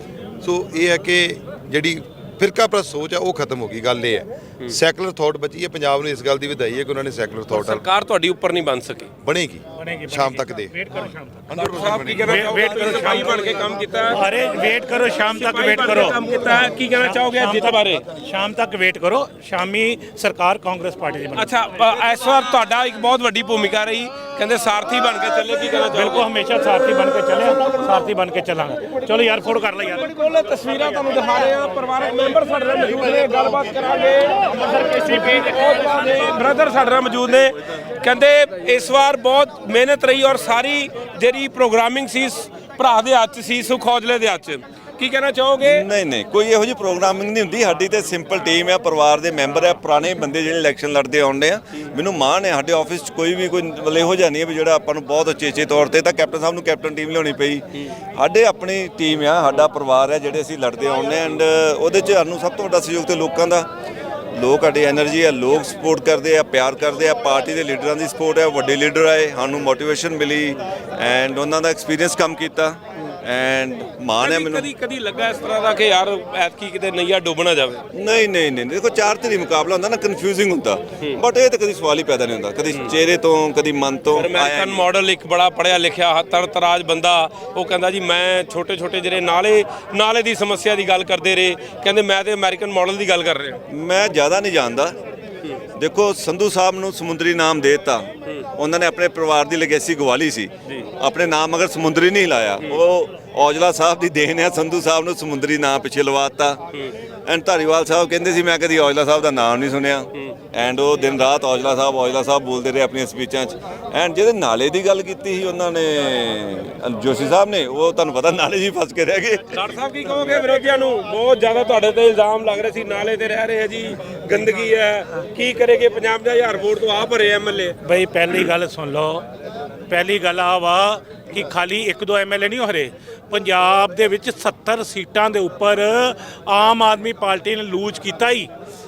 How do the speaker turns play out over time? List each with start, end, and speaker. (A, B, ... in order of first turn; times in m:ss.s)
0:00.4-0:07.8 A
0:07.5-0:09.1 B
0:09.2-0:10.7 A
0:09.8-0:11.4 C
0:11.5-0:13.1 A
0:11.5-0:14.2 B
0:12.2-0:21.5 C
0:15.3-0:18.0 B
0:21.3-0:26.2 B
0:25.9-0:31.0 C
0:29.4-0:45.8 B
0:45.6-1:03.7 D
1:04.3-1:14.7 D
1:14.2-1:17.8 B
1:17.9-1:24.8 D
1:24.1-1:33.6 B
1:33.7-1:35.0 D
1:35.8-1:46.6 D
1:47.2-1:59.4 D
1:59.5-2:07.8 B
2:07.8-2:09.2 C
2:09.9-2:18.5 C